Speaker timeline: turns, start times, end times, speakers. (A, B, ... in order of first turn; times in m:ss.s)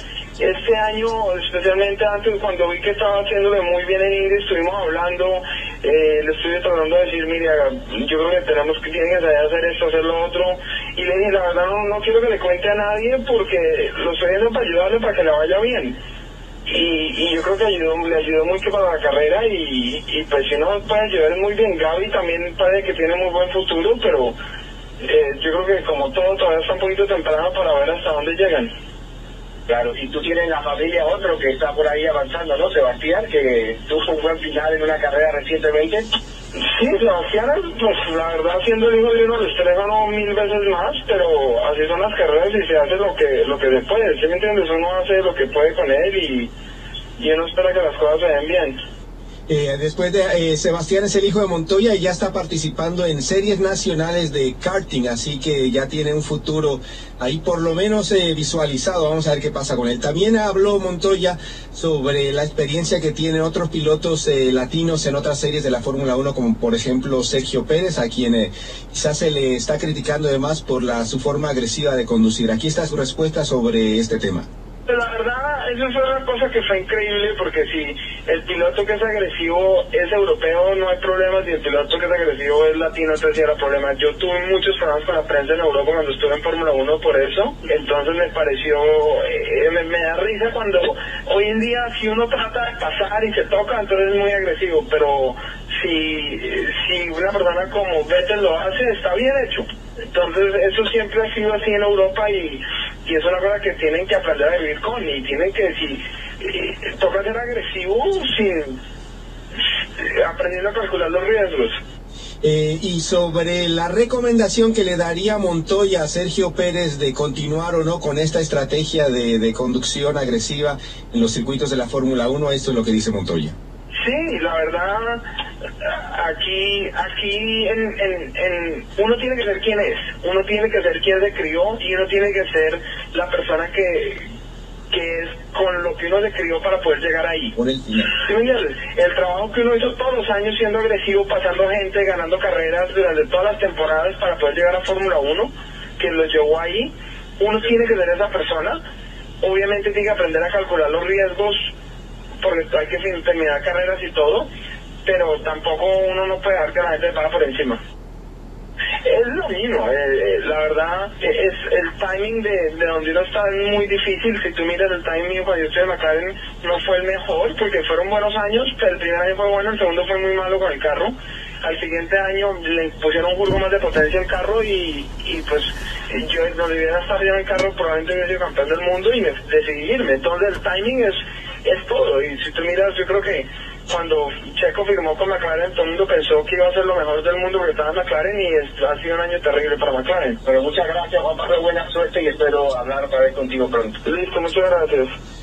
0:00.4-0:16.0 A
0:16.7-0:24.4 A
0:25.0-0:28.7 A
0:29.7-0:36.1 B
0:36.5-0:46.5 A
0:47.2-0:48.8 A
0:49.5-1:14.5 C
1:14.9-1:48.8 A
1:50.0-1:51.8 A
1:52.4-2:03.6 C
2:04.0-2:05.2 A
2:05.8-2:14.3 A
2:14.9-2:17.6 A
2:17.6-2:18.1 C
2:18.1-2:28.8 A
2:29.4-2:31.7 A
2:32.4-2:34.5 A
2:35.0-2:37.8 A
2:39.0-3:10.4 A
3:10.4-3:14.0 B
3:14.0-3:15.1 A